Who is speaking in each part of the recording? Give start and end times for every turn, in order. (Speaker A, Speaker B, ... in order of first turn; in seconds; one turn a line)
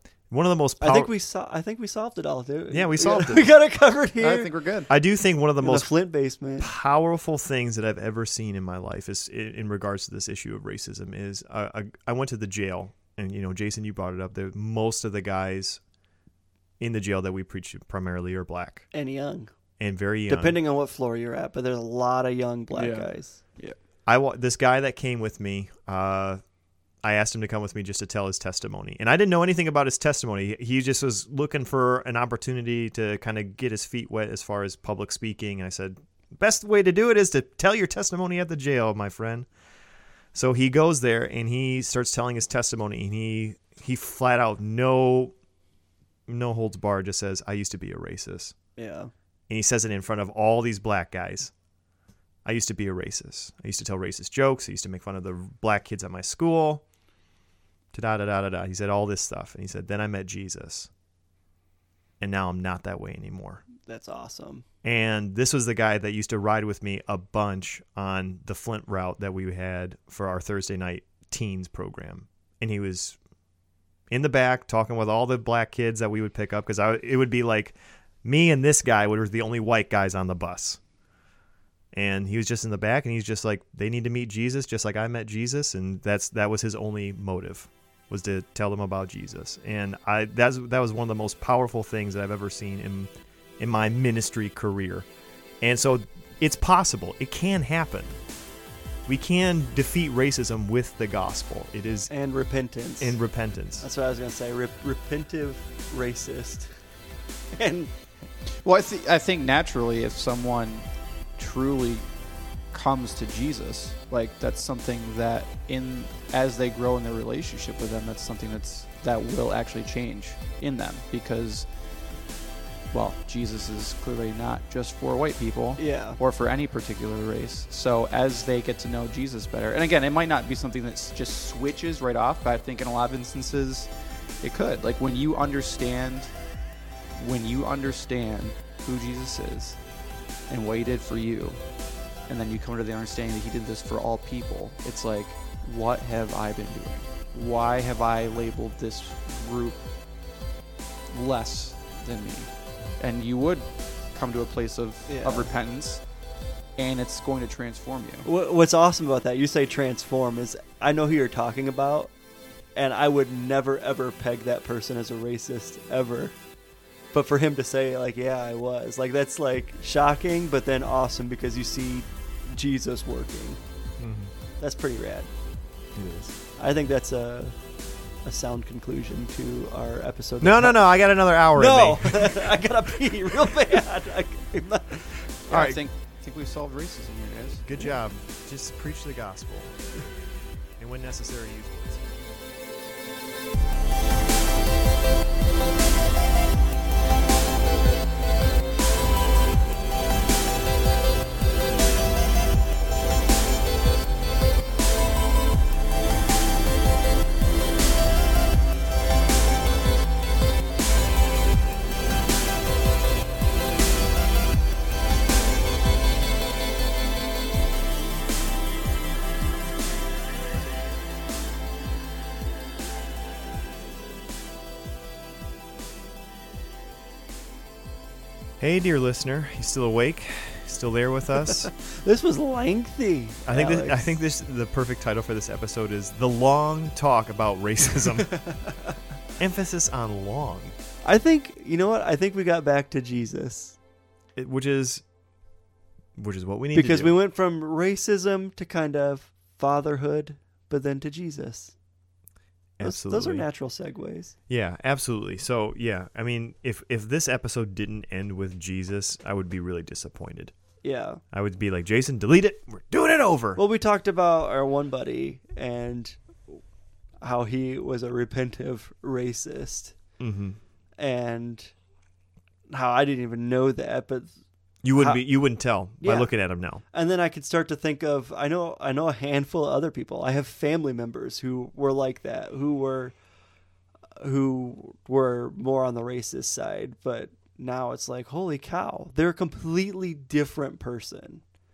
Speaker A: 0.3-1.1
Speaker B: 0.8-4.5
Speaker A: 2.7-3.5
Speaker C: 4.2-4.9
Speaker A: 4.9-5.9
Speaker B: 5.6-6.7
Speaker A: 6.6-15.8
Speaker A: 16.8-18.9
Speaker B: 18.9-19.5
Speaker A: 19.8-20.6
Speaker B: 20.3-23.4
Speaker C: 22.7-23.7
Speaker A: 24.1-26.4
Speaker A: 27.0-39.5
Speaker A: 40.3-45.3
Speaker A: 46.3-48.5
Speaker B: 48.8-49.1
Speaker A: 49.5-51.5
Speaker A: 52.4-56.8
Speaker A: 57.9-60.9
Speaker A: 62.2-63.6
Speaker B: 63.8-64.6
Speaker A: 64.8-73.2
Speaker A: 74.1-80.8
Speaker A: 81.9-95.1
Speaker A: 95.6-98.2
Speaker A: 99.0-102.1
Speaker B: 102.1-103.2
Speaker A: 103.0-103.9
Speaker B: 103.8-106.8
Speaker B: 107.5-107.9
Speaker C: 108.6-112.1
Speaker C: 112.7-121.7
Speaker C: 122.9-133.9
Speaker B: 125.8-126.2
Speaker C: 134.4-136.3
Speaker C: 137.2-139.8
Speaker C: 140.5-141.6
Speaker C: 142.3-149.8
Speaker C: 151.1-156.0
Speaker B: 155.1-155.5
Speaker C: 156.8-158.3
Speaker B: 158.2-162.2
Speaker B: 162.7-166.3
Speaker B: 167.1-173.6
Speaker A: 174.0-174.3
Speaker B: 174.6-175.3
Speaker A: 175.9-176.3
Speaker B: 176.6-181.0
Speaker A: 180.4-182.4
Speaker B: 181.5-185.3
Speaker C: 185.5-187.7
Speaker A: 185.5-185.8
Speaker A: 187.6-189.9
Speaker A: 190.8-192.1
Speaker A: 228.6-231.7
Speaker B: 231.5-234.1
Speaker A: 233.4-238.5
Speaker B: 238.4-238.7
Speaker A: 239.4-240.7
Speaker B: 241.0-243.8
Speaker A: 244.3-245.0
Speaker A: 246.2-247.1
Speaker B: 246.7-251.8
Speaker A: 252.8-253.4
Speaker B: 252.8-254.3
Speaker A: 254.5-260.5
Speaker B: 260.8-261.2
Speaker A: 261.3-263.6
Speaker B: 263.6-266.6
Speaker B: 267.2-270.0
Speaker A: 270.2-270.6
Speaker B: 271.0-271.8
Speaker B: 272.7-274.4
Speaker A: 274.8-276.8
Speaker B: 274.9-275.3
Speaker B: 275.9-283.1
Speaker B: 284.2-291.4